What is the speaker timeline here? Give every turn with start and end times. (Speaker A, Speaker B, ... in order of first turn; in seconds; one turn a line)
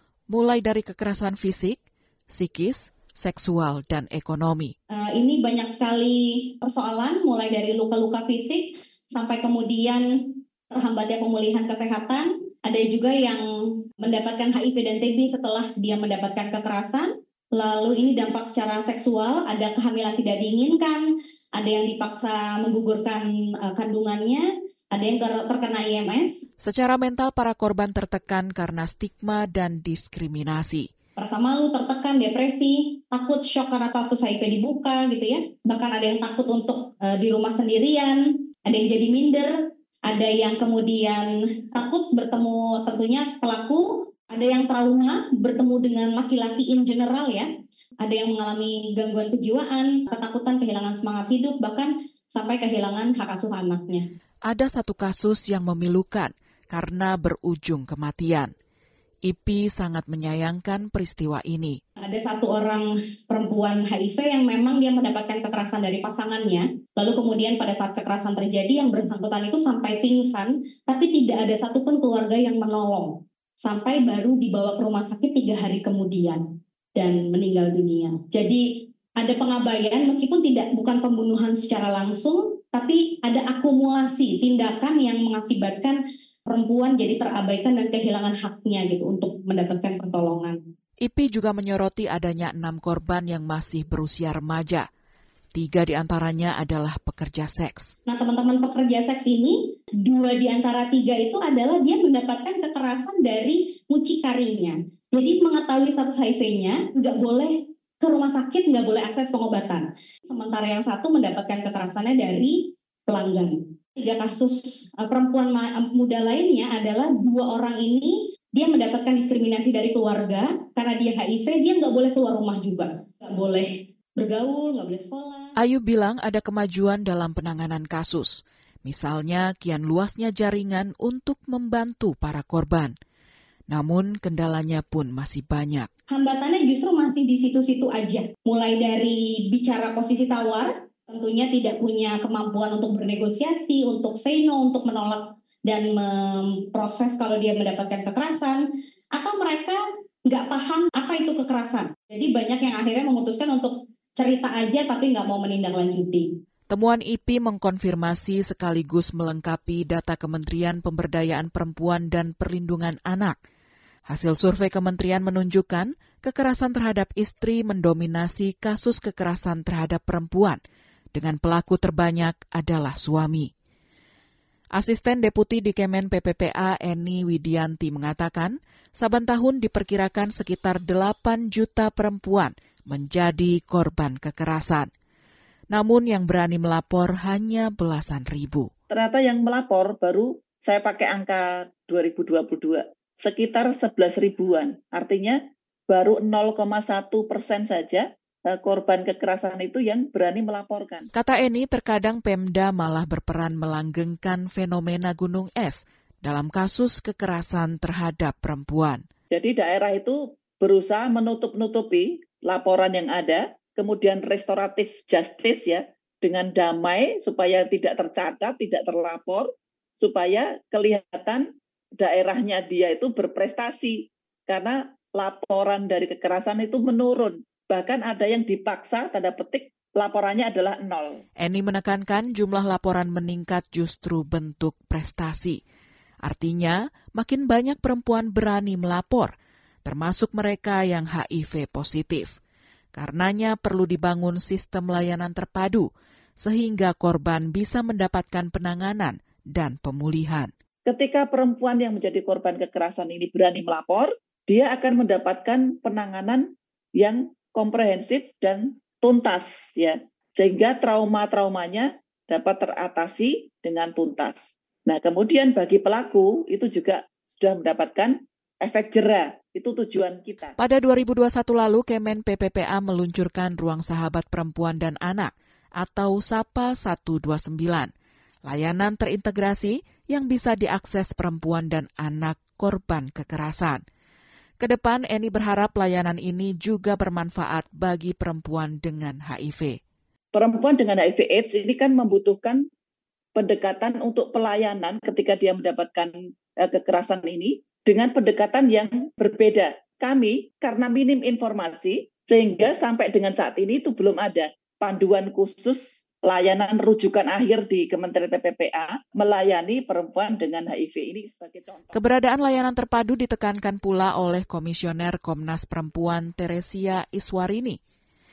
Speaker A: 0.3-4.7
Speaker B: 4.9-10.0
Speaker B: 10.7-21.0
Speaker B: 21.6-26.4
Speaker A: 26.6-30.9
Speaker B: 31.1-47.5
Speaker B: 48.0-54.0
Speaker A: 54.5-58.5
Speaker A: 59.3-61.8
Speaker B: 62.0-76.4
Speaker B: 77.0-78.6
Speaker B: 79.2-90.6
Speaker A: 91.0-94.8
Speaker A: 95.5-97.9
Speaker B: 98.1-125.5
Speaker A: 125.6-132.9
Speaker A: 133.7-135.9
Speaker B: 136.1-148.6
Speaker B: 149.2-156.3
Speaker A: 156.7-163.4
Speaker A: 164.1-170.6
Speaker A: 171.1-173.5
Speaker A: 174.7-184.9
Speaker A: 185.7-188.7
Speaker C: 188.9-201.1
Speaker A: 201.1-209.0
Speaker C: 209.3-221.4
Speaker C: 222.0-231.2
Speaker A: 231.4-235.6
Speaker A: 236.2-239.3
Speaker A: 239.8-242.3
Speaker A: 242.9-245.9
Speaker A: 246.4-250.5
Speaker C: 250.8-256.5
Speaker C: 257.0-270.5
Speaker A: 270.6-277.9
Speaker A: 278.4-283.8
Speaker A: 284.6-289.8
Speaker C: 290.3-292.6
Speaker C: 293.4-312.0
Speaker A: 311.9-317.8